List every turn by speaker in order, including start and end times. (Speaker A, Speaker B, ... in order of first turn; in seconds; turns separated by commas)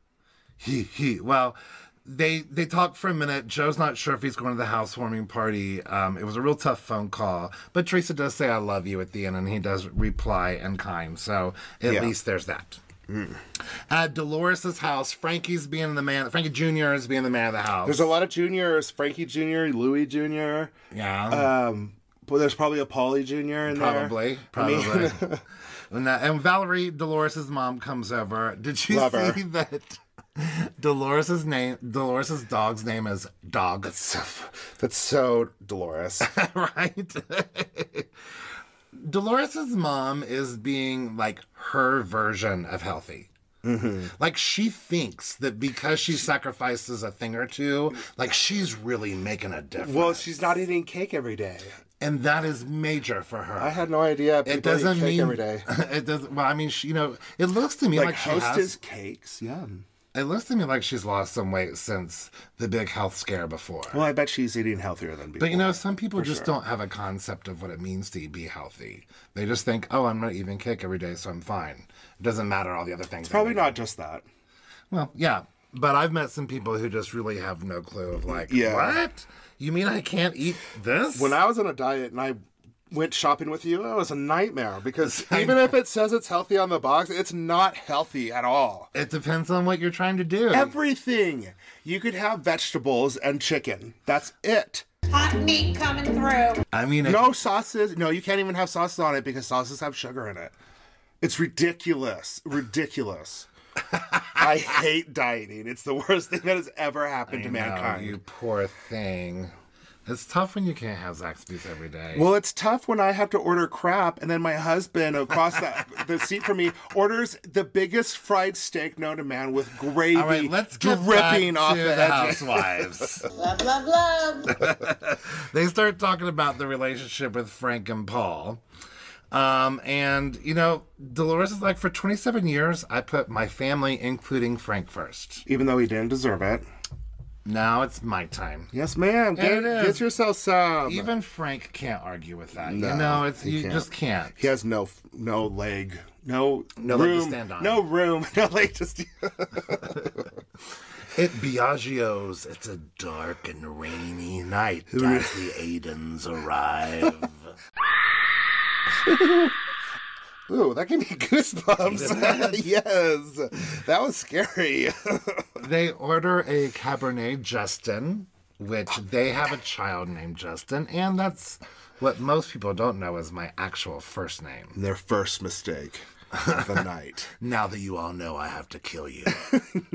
Speaker A: 0.6-12.8, Speaker B: 11.8-12.1, Speaker B: 13.1-13.4, Speaker A: 13.9-18.1, Speaker B: 17.9-20.7, Speaker A: 20.9-21.5, Speaker B: 21.3-25.4, Speaker A: 23.7-25.3, Speaker A: 25.9-34.2, Speaker B: 28.9-29.4, Speaker B: 34.2-36.3, Speaker A: 36.2-38.1, Speaker A: 38.9-43.3, Speaker B: 43.6-44.1, Speaker A: 44.1-50.6, Speaker B: 49.8-51.8, Speaker A: 52.0-53.8, Speaker B: 53.6-55.7, Speaker A: 54.5-58.8, Speaker B: 57.9-59.9, Speaker A: 60.1-64.0, Speaker B: 63.9-66.5, Speaker A: 65.4-73.8, Speaker B: 73.3-74.3, Speaker A: 74.9-81.4, Speaker B: 78.3-79.0, Speaker B: 81.2-82.4, Speaker B: 82.9-88.9, Speaker A: 85.0-85.8, Speaker A: 88.9-90.8, Speaker B: 90.5-94.8, Speaker C: 95.1-96.6, Speaker A: 96.7-97.3, Speaker B: 97.0-100.5, Speaker B: 101.2-103.5, Speaker A: 104.1-104.4, Speaker B: 104.3-108.2, Speaker A: 107.3-109.5, Speaker A: 110.1-112.3, Speaker B: 112.1-122.8, Speaker A: 120.1-123.3, Speaker C: 123.3-124.5, Speaker A: 124.5-128.6, Speaker A: 129.3-135.4, Speaker B: 135.5-136.7, Speaker A: 137.4-138.7, Speaker B: 138.7-141.1, Speaker A: 139.4-140.1, Speaker A: 140.8-144.4, Speaker B: 142.6-150.1, Speaker A: 146.8-147.8, Speaker A: 151.1-157.5, Speaker B: 154.9-155.4, Speaker B: 159.0-159.6, Speaker B: 160.5-165.5, Speaker A: 161.8-162.7, Speaker A: 165.6-174.8, Speaker B: 174.8-177.3, Speaker A: 176.4-176.7, Speaker A: 177.4-179.4